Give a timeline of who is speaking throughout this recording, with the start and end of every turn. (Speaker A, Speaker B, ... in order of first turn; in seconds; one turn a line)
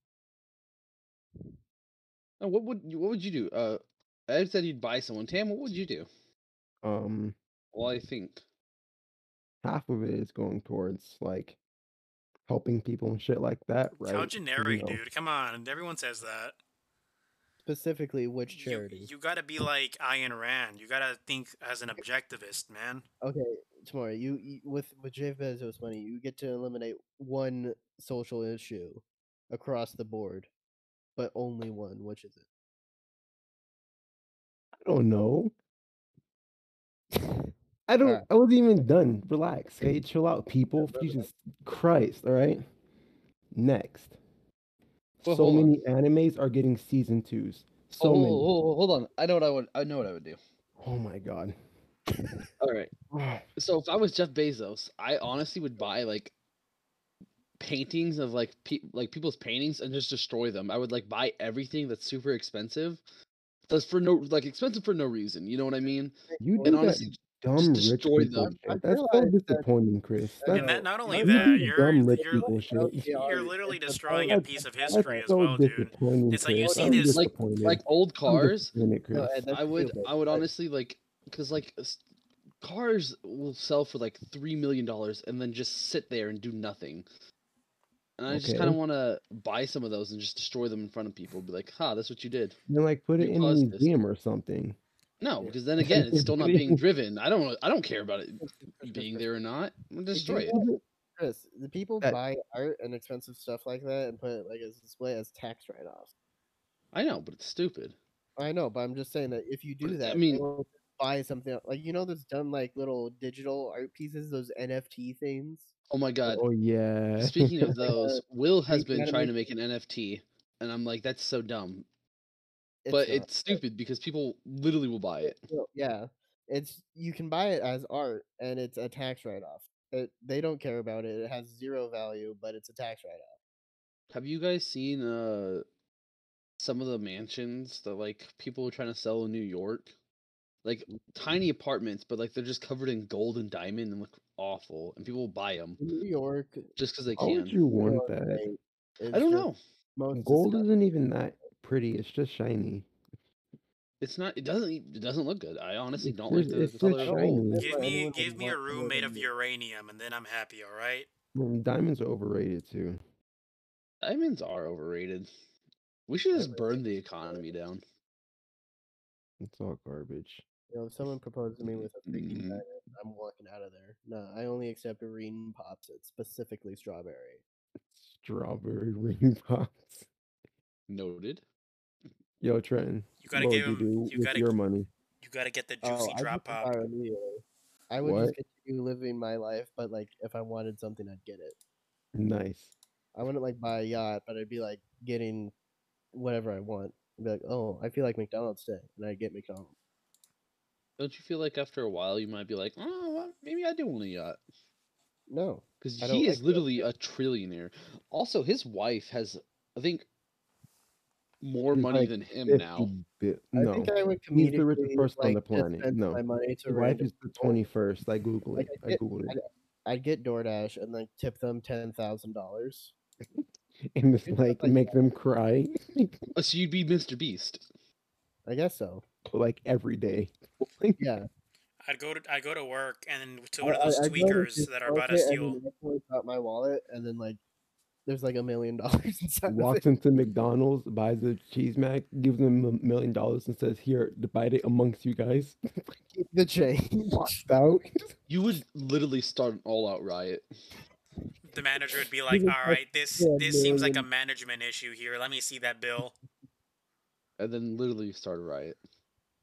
Speaker A: 2.4-6.1
Speaker B: 6.8-7.3
Speaker A: 7.7-8.4
Speaker B: 9.6-11.6
Speaker B: 12.4-15.0
Speaker C: 14.0-16.6
Speaker D: 17.6-19.1
Speaker C: 18.5-23.0
Speaker D: 23.2-30.5
Speaker D: 31.1-32.4
Speaker B: 34.8-35.5
Speaker B: 37.9-42.6
Speaker D: 40.8-41.2
Speaker B: 43.5-44.2
Speaker B: 45.2-48.5
Speaker A: 45.2-45.7
Speaker A: 48.0-50.4
Speaker B: 50.8-51.5
Speaker A: 52.6-52.9
Speaker B: 53.1-53.4
Speaker A: 53.6-56.3
Speaker A: 57.6-63.0
Speaker A: 63.7-68.5
Speaker D: 65.8-67.0
Speaker B: 66.4-73.1
Speaker D: 68.4-69.7
Speaker D: 70.4-75.1
Speaker C: 70.5-72.5
Speaker C: 73.1-77.2
Speaker B: 74.2-79.4
Speaker D: 76.6-77.0
Speaker A: 77.1-78.7
Speaker D: 79.1-80.5
Speaker A: 79.5-82.0
Speaker A: 82.6-87.0
Speaker A: 88.2-92.6
Speaker B: 88.3-88.8
Speaker B: 92.7-94.8
Speaker A: 93.2-93.9
Speaker A: 95.2-100.5
Speaker B: 95.8-96.8
Speaker D: 98.4-99.2
Speaker D: 100.1-106.1
Speaker B: 100.4-100.8
Speaker A: 106.9-108.0
Speaker D: 108.4-115.7
Speaker A: 109.8-110.4
Speaker A: 115.9-116.4
Speaker B: 116.3-117.8
Speaker A: 117.2-121.8
Speaker D: 117.7-119.4
Speaker D: 122.8-123.6
Speaker A: 122.9-125.4
Speaker D: 125.2-133.4
Speaker A: 134.1-135.6
Speaker A: 136.6-139.9
Speaker A: 140.6-145.8
Speaker D: 145.8-146.7
Speaker A: 146.8-147.6
Speaker B: 147.2-148.4
Speaker D: 147.8-150.7
Speaker A: 149.1-149.6
Speaker B: 150.1-152.9
Speaker A: 154.0-157.4
Speaker B: 156.0-157.9
Speaker D: 156.8-159.2
Speaker C: 157.6-161.1
Speaker B: 161.3-163.0
Speaker A: 164.0-165.3
Speaker A: 166.1-167.8
Speaker D: 166.3-167.4
Speaker B: 169.4-170.4
Speaker D: 170.7-177.4
Speaker A: 172.1-172.6
Speaker B: 177.9-180.1
Speaker A: 180.9-181.4
Speaker B: 182.4-184.9
Speaker C: 183.2-184.5
Speaker C: 185.2-186.8
Speaker D: 185.8-191.6
Speaker B: 188.0-188.3
Speaker B: 192.1-192.7
Speaker D: 193.1-195.5
Speaker D: 196.1-199.7
Speaker A: 201.0-204.4
Speaker D: 205.3-206.9
Speaker A: 205.8-210.1
Speaker A: 211.4-212.9
Speaker B: 211.7-219.4
Speaker D: 213.6-217.6
Speaker D: 218.6-222.9
Speaker B: 223.9-226.2
Speaker D: 224.2-225.0
Speaker A: 226.3-227.6
Speaker D: 228.4-229.0
Speaker B: 229.3-231.0
Speaker D: 231.0-231.3
Speaker C: 231.8-235.6
Speaker D: 233.6-237.4
Speaker D: 238.1-239.8
Speaker B: 239.5-245.9
Speaker D: 246.1-247.8
Speaker B: 247.2-247.8
Speaker A: 248.3-250.4
Speaker C: 251.5-256.1
Speaker D: 252.0-254.1
Speaker A: 257.4-258.8